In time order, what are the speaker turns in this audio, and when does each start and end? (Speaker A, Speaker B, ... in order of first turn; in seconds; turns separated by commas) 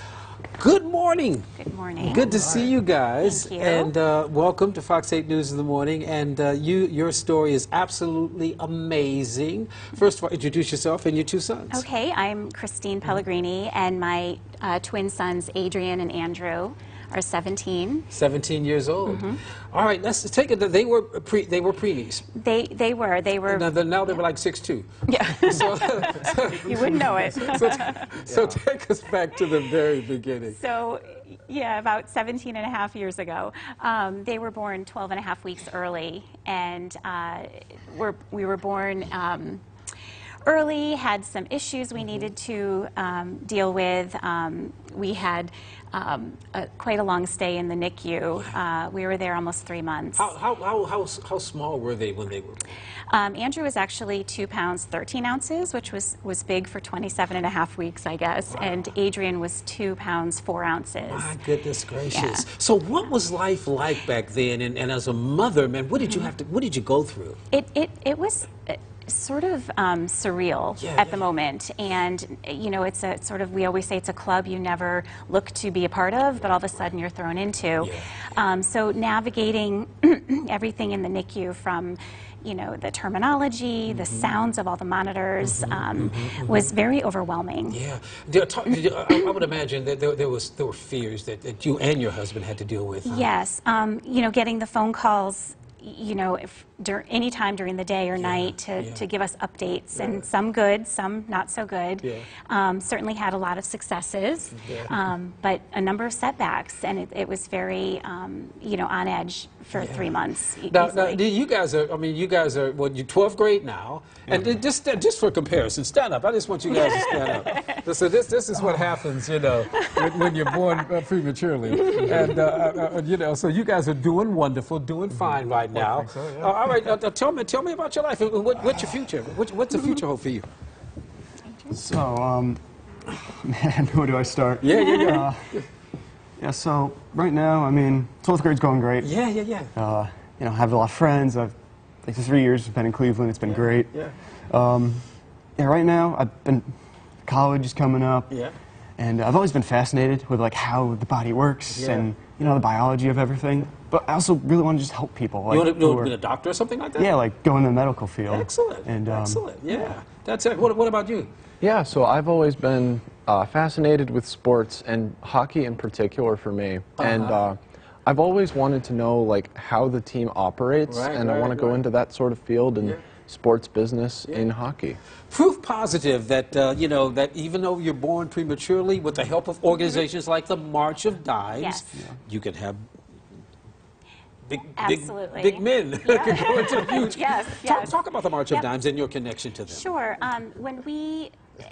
Speaker A: 0.5-11.8, Speaker B: 1.6-2.2, Speaker C: 2.1-2.7, Speaker B: 3.2-3.9, Speaker B: 11.7-18.1, Speaker A: 18.1-22.2, Speaker B: 19.1-19.4, Speaker B: 22.3-23.7, Speaker A: 23.5-30.6, Speaker B: 25.1-28.1, Speaker C: 28.3-28.6, Speaker B: 30.5-39.6, Speaker B: 40.5-50.3, Speaker A: 50.1-52.7, Speaker B: 53.1-61.4, Speaker A: 58.5-58.9, Speaker A: 61.0-67.4, Speaker B: 62.1-62.5, Speaker B: 66.0-66.3, Speaker B: 67.5-87.8, Speaker A: 70.8-71.2, Speaker A: 77.8-78.2, Speaker A: 83.9-84.3, Speaker A: 85.4-86.7, Speaker A: 87.7-93.3, Speaker B: 93.0-111.2, Speaker A: 98.1-99.0, Speaker A: 99.9-100.2, Speaker A: 104.5-105.0, Speaker A: 109.7-110.1, Speaker A: 110.7-130.5, Speaker B: 116.8-117.7, Speaker B: 119.7-120.3, Speaker D: 131.7-132.6, Speaker D: 133.2-135.6, Speaker A: 134.6-135.7, Speaker D: 136.4-139.1, Speaker A: 139.0-139.7, Speaker D: 139.7-143.9, Speaker A: 143.4-144.1, Speaker D: 144.5-145.0, Speaker D: 145.6-146.7, Speaker D: 147.2-148.3, Speaker D: 149.0-156.1, Speaker A: 151.7-152.1, Speaker A: 155.5-157.1, Speaker D: 157.0-159.4, Speaker A: 158.3-161.3, Speaker C: 161.6-175.0, Speaker A: 167.0-167.4, Speaker A: 170.9-171.8, Speaker A: 175.3-182.8, Speaker B: 181.5-181.8, Speaker A: 184.5-189.9, Speaker B: 184.8-188.0, Speaker B: 189.7-191.3